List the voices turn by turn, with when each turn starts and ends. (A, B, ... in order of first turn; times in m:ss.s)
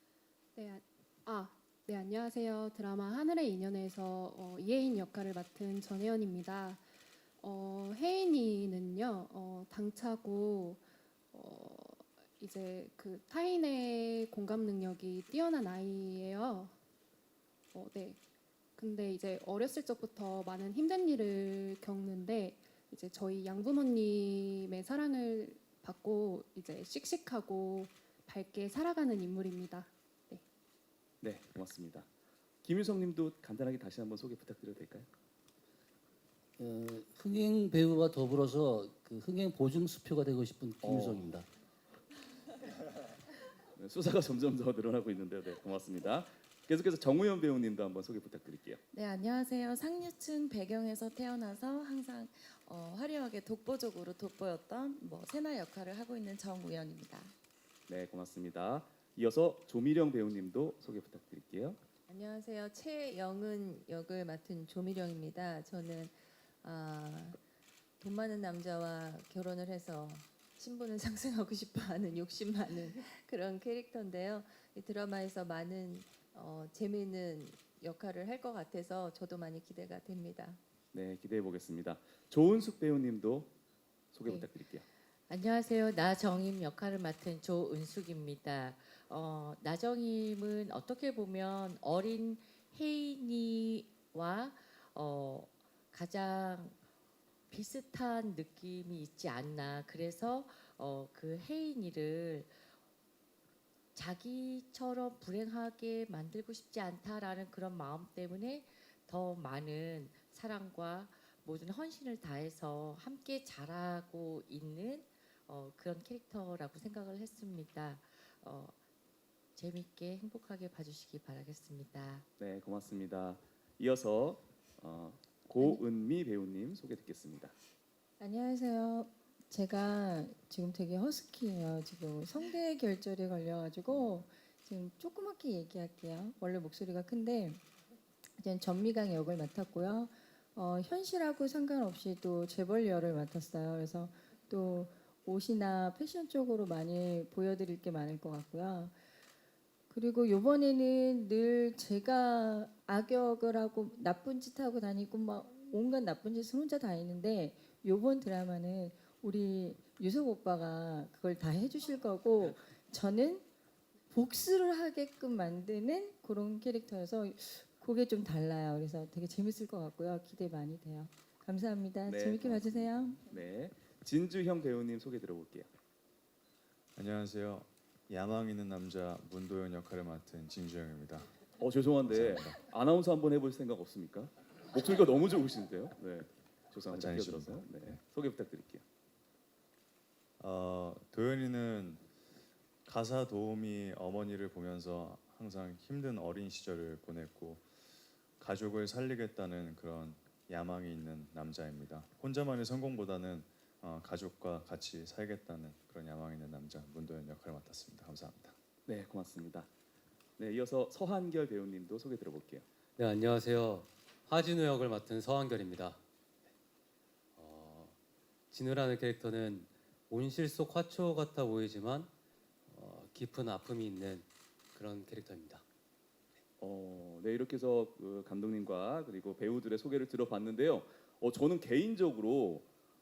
0:00.6-0:06.8 A
0:07.4-0:16.8 A
0:17.7-0:18.2 A
0:18.8-0:30.4 A
0:31.2-0:32.1 B
0:32.6-0:35.1 B
0:36.6-0:41.4 C
0:40.8-0:41.3 B
0:43.8-0:48.8 B
0:48.9-0:57.3 D
0:57.9-1:01.8 B
1:02.1-1:07.4 E
1:08.0-1:20.6 E
1:20.9-1:23.5 B
1:24.1-1:24.9 B
1:25.3-1:36.8 F
1:37.5-1:42.6 F
1:43.9-1:58.8 F
1:59.6-2:02.2 F
2:02.4-2:07.6 B
2:08.2-2:17.6 G
2:18.4-2:29.0 G
2:29.9-2:43.4 G
2:44.1-2:53.2 G
2:52.0-2:55.7 B
2:57.0-3:01.3 H
3:01.6-3:08.8 B
3:02.1-3:02.6 H
3:06.9-3:08.0 H
3:10.4-3:12.0 H
3:12.9-3:17.6 H
3:18.4-3:28.6 H
3:28.9-3:29.7 B
3:30.4-3:32.7 B
3:33.0-3:36.0 I
3:37.4-3:38.0 I
3:38.5-3:42.1 I
3:42.7-3:45.6 I
3:46.6-3:52.7 B